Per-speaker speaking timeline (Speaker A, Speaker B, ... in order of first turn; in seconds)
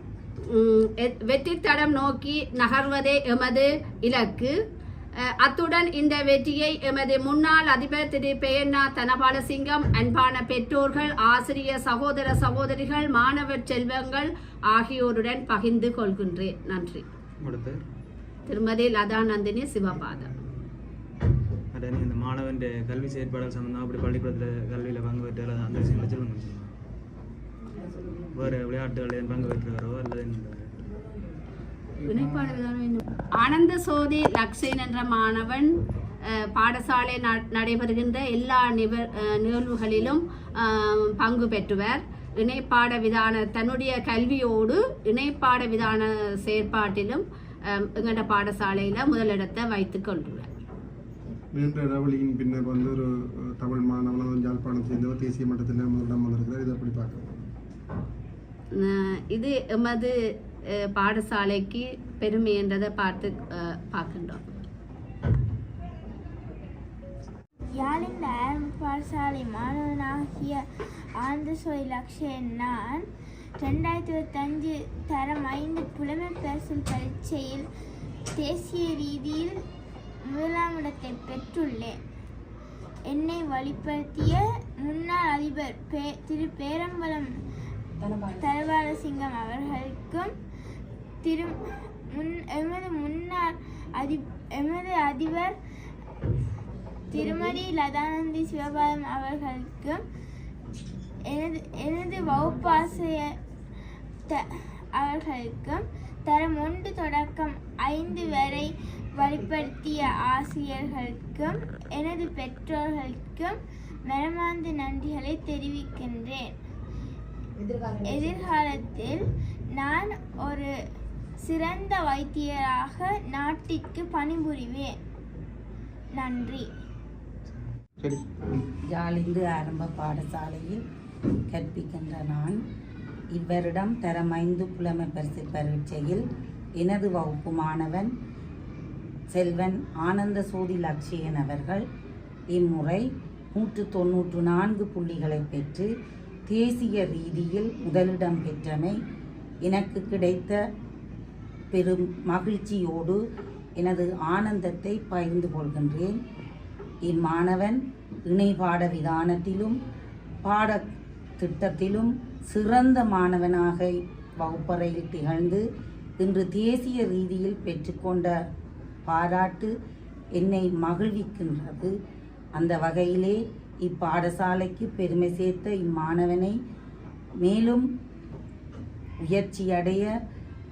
Speaker A: 0.5-4.5, 5.4-17.1, 18.5-20.3, 32.0-35.7, 36.2-50.5, 58.7-60.1, 60.9-64.4
Speaker B: 17.4-17.8, 21.7-26.7, 28.3-30.7
Speaker C: 51.6-53.0, 53.6-57.3
Speaker D: 67.7-70.6, 71.2-73.1, 73.6-77.6, 78.3-79.6, 80.2-82.0, 83.0-87.3, 88.1-90.3, 91.2-91.5, 92.1-95.5, 97.1-100.0, 101.3-103.4, 104.3-116.5, 118.0-120.7, 121.4-125.0, 126.1-126.7
Speaker E: 128.9-130.8, 131.5-132.6, 133.3-136.2, 136.8-138.1, 139.3-141.8, 142.5-145.9, 146.5-148.9, 149.7-150.6, 151.7-153.2, 153.8-156.2, 157.1-159.8, 160.4-160.8, 161.4-163.9, 164.4-165.6, 166.2-168.3, 169.1-169.7, 170.4-171.9, 172.5-176.5, 177.4-177.8, 179.2-180.1